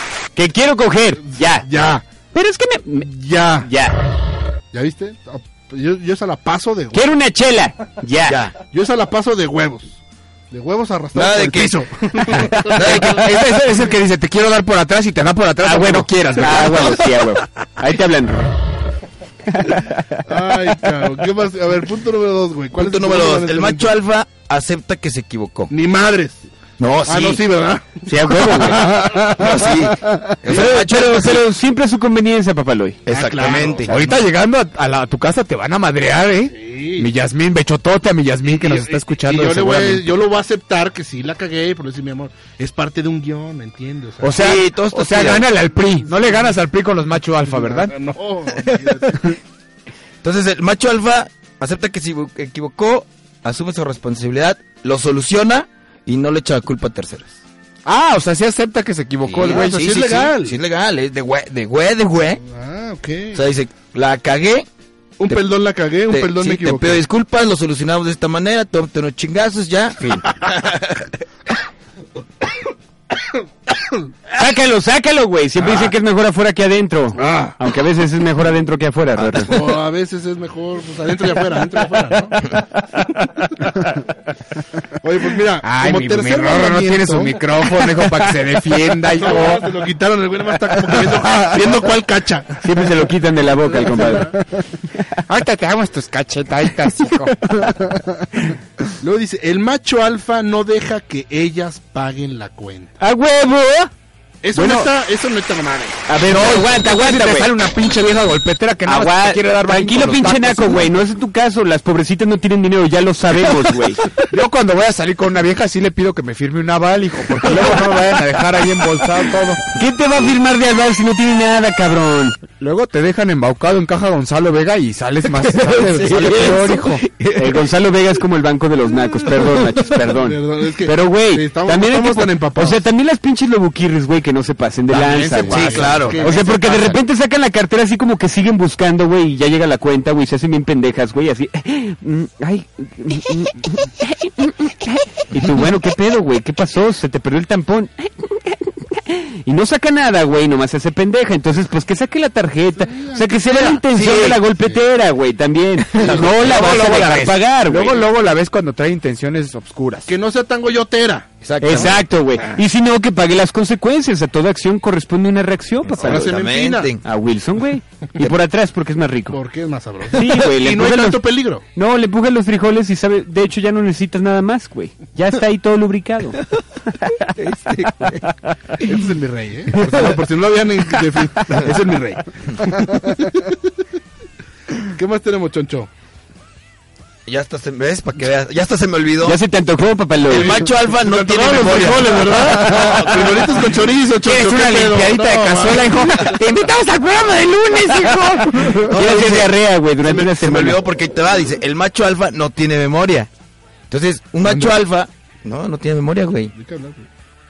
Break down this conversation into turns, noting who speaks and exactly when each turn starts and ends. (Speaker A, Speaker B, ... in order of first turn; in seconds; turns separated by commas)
Speaker A: 0.3-1.7, Speaker B: 1.3-2.0, Speaker A: 2.3-4.0, Speaker B: 3.0-3.7, Speaker B: 4.7-7.1, Speaker A: 6.9-8.4, Speaker C: 8.3-8.5, Speaker B: 8.7-13.1, Speaker C: 11.1-13.4, Speaker D: 12.9-17.2, Speaker A: 15.6-18.5, Speaker A: 19.6-20.0, Speaker B: 20.2-23.9, Speaker C: 22.8-25.7, Speaker B: 25.7-26.4, Speaker C: 26.8-27.4, Speaker B: 27.0-29.7, Speaker A: 28.1-28.9, Speaker C: 29.1-31.4, Speaker A: 30.5-33.0, Speaker C: 33.0-34.1, Speaker B: 33.1-34.0, Speaker D: 33.9-40.1, Speaker B: 36.5-37.1, Speaker B: 38.5-44.5, Speaker D: 44.2-47.9, Speaker C: 44.4-45.5, Speaker B: 47.5-49.3, Speaker C: 50.2-57.3, Speaker D: 57.8-60.0, Speaker C: 59.2-62.4, Speaker B: 59.4-60.5, Speaker B: 62.4-63.5, Speaker C: 63.3-64.7, Speaker B: 65.2-67.0, Speaker C: 66.1-71.0, Speaker A: 74.3-79.5, Speaker B: 77.2-77.5, Speaker B: 79.4-82.5, Speaker B: 85.0-87.4, Speaker D: 85.6-89.6, Speaker B: 89.1-92.6, Speaker A: 92.6-94.3, Speaker B: 93.8-94.3, Speaker D: 95.3-98.0, Speaker B: 99.0-102.9, Speaker A: 103.0-103.9, Speaker B: 104.4-106.0, Speaker A: 104.5-104.9, Speaker A: 106.1-107.5, Speaker D: 106.2-110.9, Speaker A: 108.8-114.0, Speaker D: 114.3-119.6, Speaker A: 119.8-122.4, Speaker D: 122.6-127.0, Speaker C: 125.4-127.6, Speaker A: 127.3-158.0, Speaker B: 130.1-132.8, Speaker B: 134.9-136.9, Speaker D: 135.0-135.5, Speaker C: 135.5-136.2, Speaker B: 152.9-153.8, Speaker C: 153.9-154.4, Speaker C: 155.9-157.0, Speaker D: 156.1-160.1, Speaker B: 160.1-162.6, Speaker C: 161.4-162.0, Speaker A: 161.6-166.3, Speaker C: 165.9-167.0, Speaker B: 166.0-166.9, Speaker A: 167.0-169.4, Speaker B: 169.3-171.6, Speaker A: 170.1-176.4, Speaker C: 177.3-178.2, Speaker B: 178.8-183.6, Speaker B: 184.9-185.9, Speaker C: 187.2-189.4, Speaker A: 189.2-190.5, Speaker C: 190.3-193.5, Speaker B: 190.3-196.4, Speaker D: 194.2-198.9, Speaker C: 198.8-203.3, Speaker A: 198.9-200.8, Speaker C: 203.9-206.5, Speaker B: 206.5-207.1